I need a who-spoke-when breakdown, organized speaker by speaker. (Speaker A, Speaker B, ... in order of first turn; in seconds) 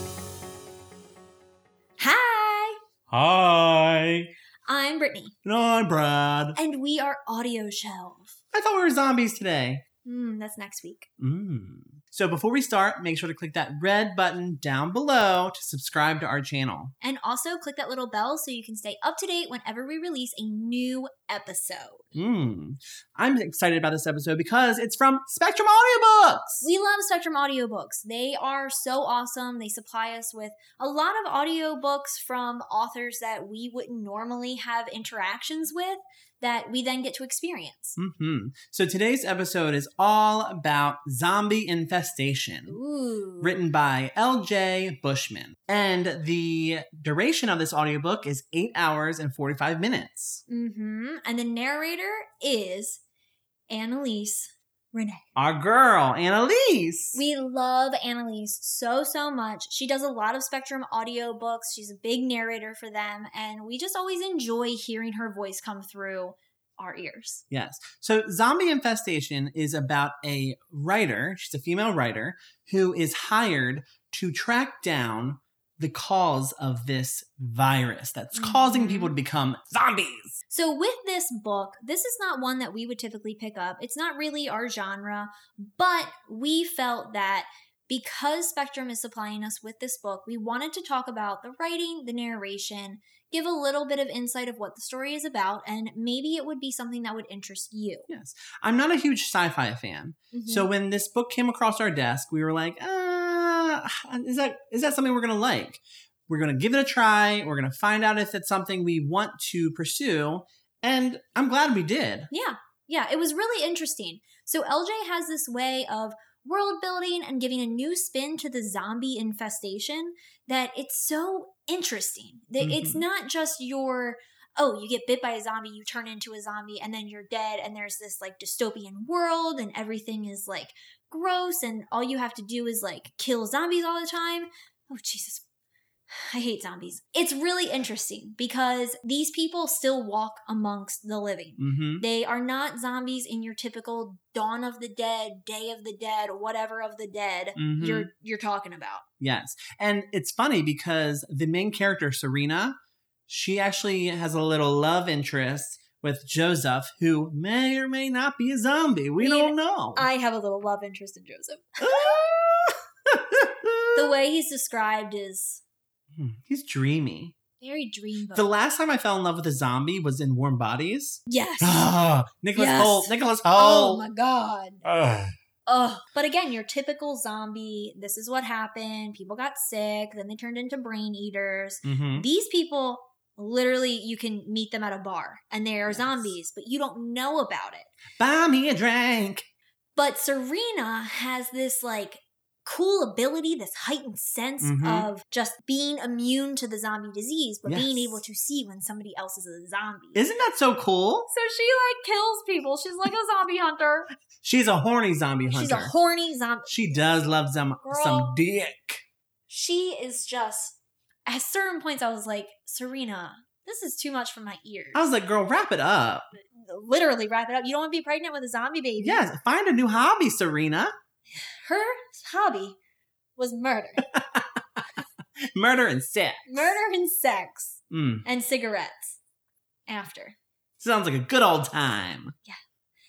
Speaker A: 2.0-2.8, 4.7-5.3, 6.6-8.3, 10.1-11.1, 17.0-22.1, 26.6-38.0, 42.7-43.6, 50.5-53.0, 53.7-55.3, 57.1-67.4, 78.3-79.1, 80.5-98.1, 100.3-100.7, 112.3-135.4, 136.1-149.1, 159.2-162.2, 163.9-165.6, 167.6-168.5, 171.3-171.9, 172.6-174.9, 175.7-187.9, 190.0-200.3, 201.3-204.1, 205.5-206.8, 207.8-208.4, 209.5-215.0, 216.6-219.3, 221.4-222.8, 223.4-224.1, 226.5-229.2, 229.9-230.4
Speaker B: 3.1-4.3, 5.5-6.6, 8.5-9.8, 11.2-16.9, 22.1-26.7, 38.0-42.8, 43.4-50.4, 55.4-57.2, 67.5-80.4, 98.1-112.3, 122.6-123.0, 141.6-142.1, 147.6-148.1, 149.2-152.8, 153.3-160.1, 161.8-164.1, 166.2-167.3, 168.3-174.0, 174.9-175.3, 181.8-182.3, 185.9-186.3, 188.2-189.5, 194.6-195.1, 197.7-198.2, 200.2-201.3, 204.4-205.9, 206.7-209.1, 214.9-216.3, 219.0-220.9, 224.1-224.4, 225.5-226.8, 227.9-228.3, 230.8-232.3